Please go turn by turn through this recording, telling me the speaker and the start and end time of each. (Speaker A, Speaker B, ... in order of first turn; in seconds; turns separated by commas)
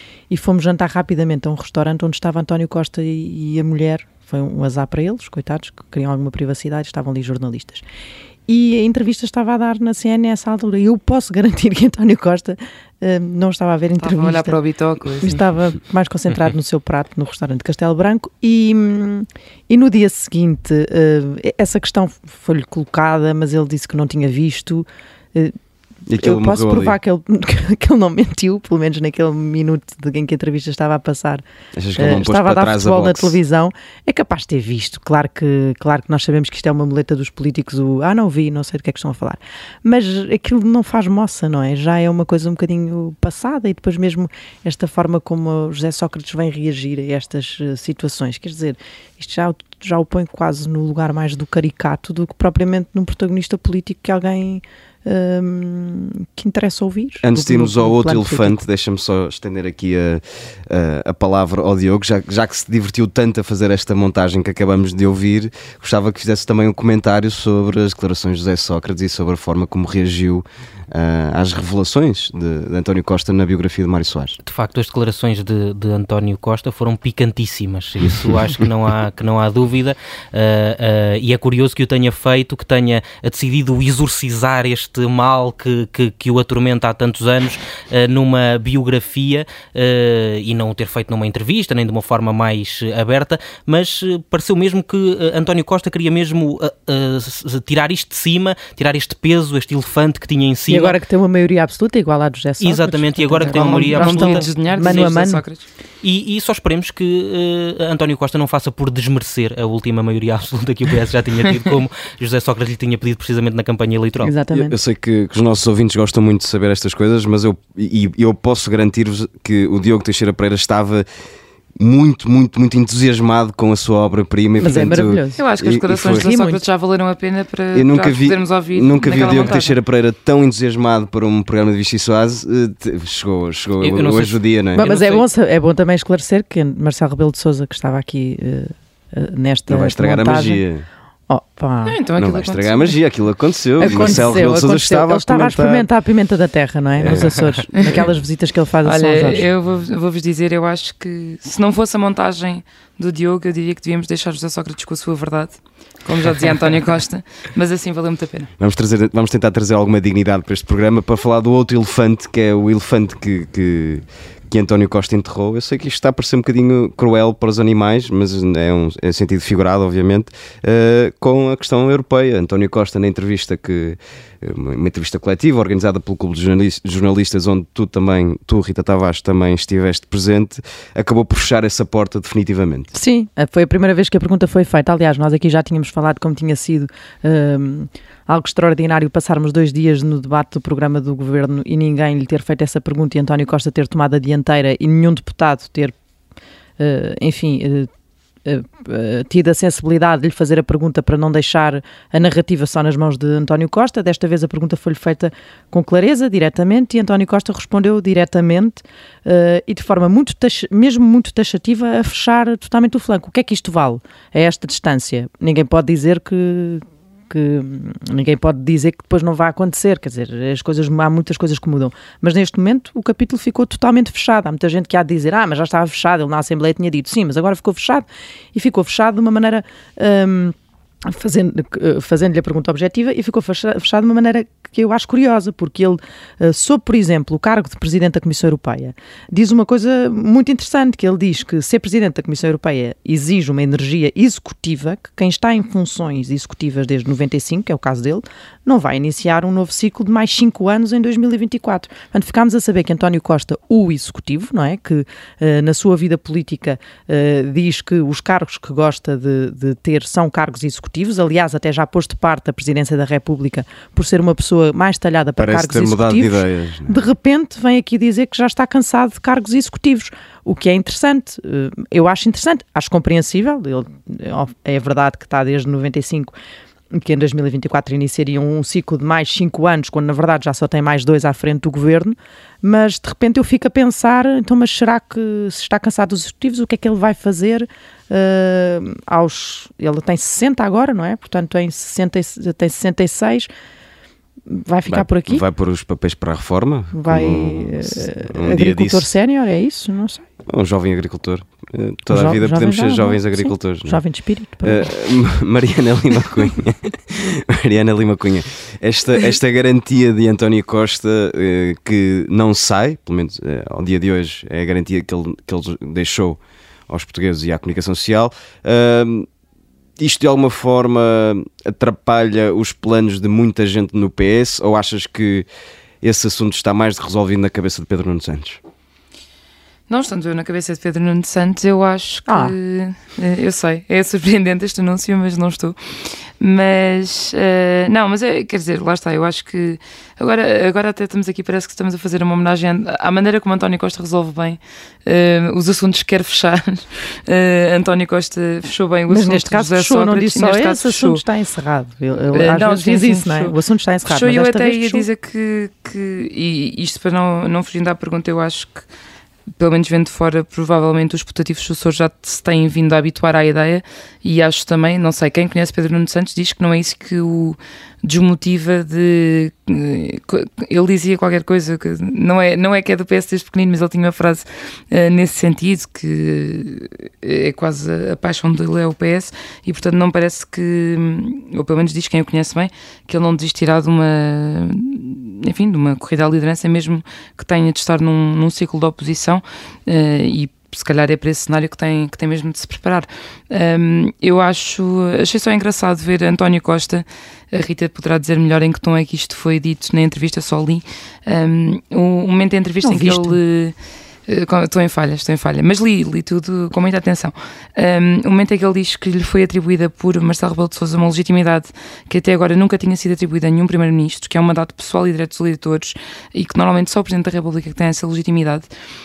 Speaker A: 0.3-7.8, Speaker A: 8.5-14.6, Speaker B: 14.0-15.4, Speaker A: 15.2-25.6, Speaker C: 26.1-27.0, Speaker A: 26.1-31.4, Speaker C: 31.8-33.4, Speaker A: 32.0-58.6, Speaker C: 57.2-74.4, Speaker D: 74.4-101.0, Speaker A: 100.7-105.5, Speaker D: 102.6-105.2, Speaker B: 103.5-105.6, Speaker D: 106.0-114.3, Speaker A: 114.2-114.8, Speaker C: 114.5-121.0, Speaker C: 121.8-126.3, Speaker A: 124.6-125.4, Speaker B: 125.4-129.8, Speaker A: 126.1-126.6, Speaker C: 127.7-134.8, Speaker D: 129.2-129.6, Speaker D: 133.8-135.3, Speaker A: 134.7-140.6, Speaker C: 139.7-140.8, Speaker A: 141.3-141.9, Speaker B: 141.8-143.0, Speaker C: 142.2-145.9, Speaker A: 143.8-149.5, Speaker B: 143.9-144.2, Speaker C: 147.0-147.6, Speaker B: 148.8-158.5, Speaker C: 158.6-182.9, Speaker A: 182.9-195.9, Speaker A: 196.8-197.9, Speaker A: 198.4-276.3, Speaker C: 265.4-267.0, Speaker A: 276.9-293.5, Speaker A: 294.5-295.4, Speaker C: 294.9-299.1, Speaker A: 296.9-300.2, Speaker C: 300.5-304.0, Speaker A: 302.1-304.9, Speaker C: 304.6-319.3, Speaker C: 320.0-325.4, Speaker C: 326.0-328.6, Speaker B: 329.9-335.8, Speaker A: 332.3-332.6, Speaker B: 336.4-351.2, Speaker A: 349.1-355.1, Speaker B: 352.3-353.5, Speaker B: 354.1-358.8, Speaker B: 359.6-403.7, Speaker A: 402.8-403.4, Speaker B: 404.3-418.7